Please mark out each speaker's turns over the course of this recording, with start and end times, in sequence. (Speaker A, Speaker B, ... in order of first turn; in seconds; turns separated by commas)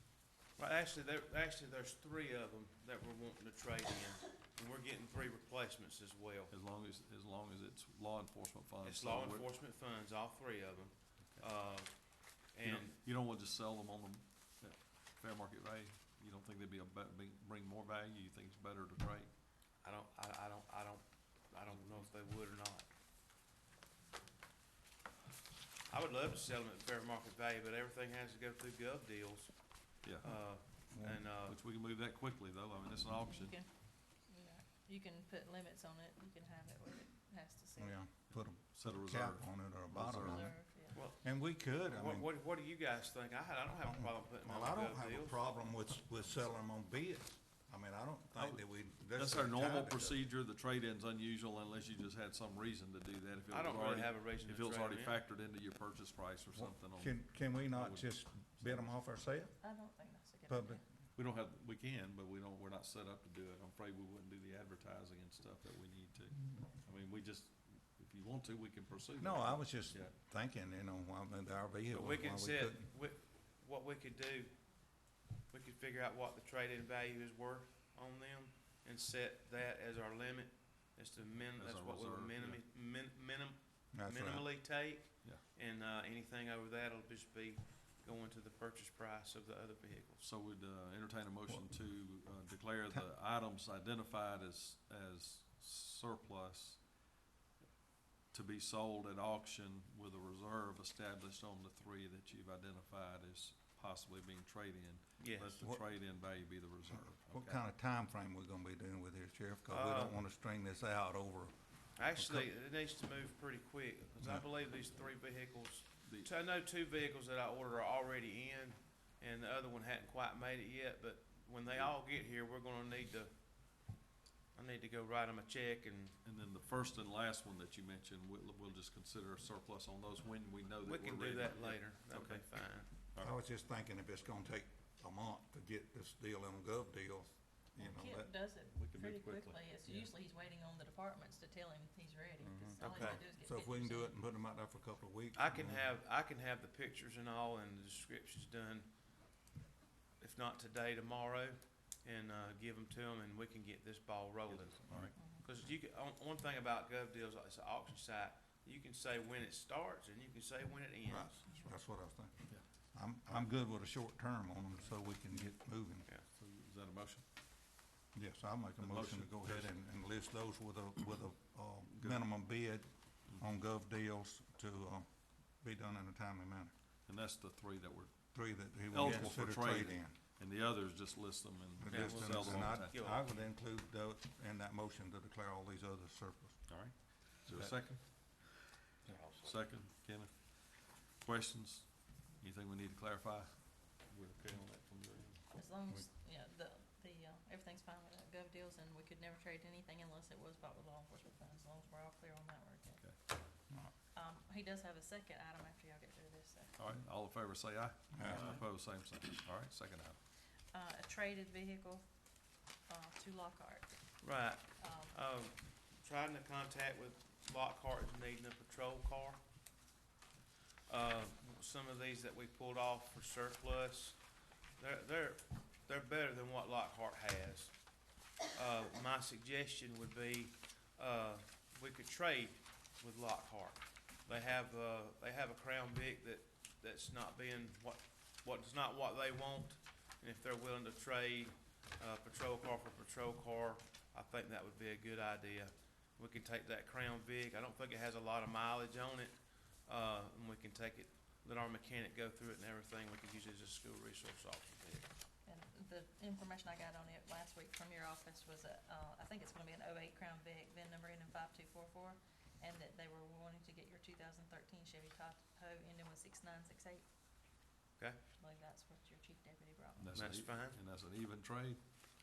Speaker A: 0.6-6.5, Speaker B: 6.5-9.4, Speaker A: 8.8-13.0, Speaker B: 11.2-11.4, Speaker B: 12.6-19.3, Speaker A: 19.8-22.9, Speaker A: 25.9-31.6, Speaker B: 30.0-30.3, Speaker C: 30.9-31.2, Speaker B: 31.4-33.5, Speaker D: 33.1-38.0, Speaker C: 37.8-42.3, Speaker B: 38.3-40.5, Speaker D: 40.1-41.0, Speaker A: 40.9-45.4, Speaker C: 43.8-50.3, Speaker B: 48.4-58.9, Speaker A: 53.5-55.2, Speaker C: 56.5-59.6, Speaker D: 59.6-60.8, Speaker C: 60.5-60.8, Speaker B: 61.1-70.1, Speaker C: 69.2-72.9, Speaker A: 71.9-74.6, Speaker A: 75.5-90.2, Speaker B: 81.5-82.6, Speaker C: 83.9-84.5, Speaker B: 90.2-96.8, Speaker C: 91.5-91.7, Speaker B: 98.3-107.6, Speaker A: 105.2-105.6, Speaker C: 105.6-105.9, Speaker C: 106.9-112.5, Speaker A: 109.7-110.2, Speaker A: 112.0-123.3, Speaker B: 116.0-116.3, Speaker A: 124.5-126.2, Speaker B: 126.2-132.5, Speaker A: 130.8-132.9, Speaker B: 133.0-133.4, Speaker C: 133.2-138.3, Speaker D: 137.8-144.1, Speaker B: 138.7-140.1, Speaker C: 142.4-145.8, Speaker A: 142.8-143.2, Speaker A: 145.3-148.9, Speaker A: 150.2-161.7, Speaker B: 154.4-155.1, Speaker D: 155.1-155.4, Speaker C: 161.1-166.1, Speaker B: 164.8-165.6, Speaker B: 166.3-167.2, Speaker C: 168.1-176.7, Speaker B: 168.8-169.7, Speaker B: 171.9-172.2, Speaker B: 177.1-178.4, Speaker C: 178.3-180.2, Speaker B: 178.9-183.0, Speaker A: 179.0-179.3, Speaker C: 181.8-186.9, Speaker A: 181.9-183.5, Speaker B: 186.7-188.3, Speaker C: 187.4-187.8, Speaker A: 189.1-189.6, Speaker B: 189.4-195.4, Speaker D: 195.5-203.0, Speaker D: 204.1-206.8, Speaker B: 206.8-210.2, Speaker C: 208.1-208.6, Speaker D: 210.7-214.0, Speaker A: 214.2-219.4, Speaker D: 214.8-215.2, Speaker A: 220.9-224.2, Speaker A: 224.8-255.1, Speaker D: 255.4-267.1, Speaker D: 268.3-270.1, Speaker B: 270.0-271.8, Speaker A: 270.1-270.8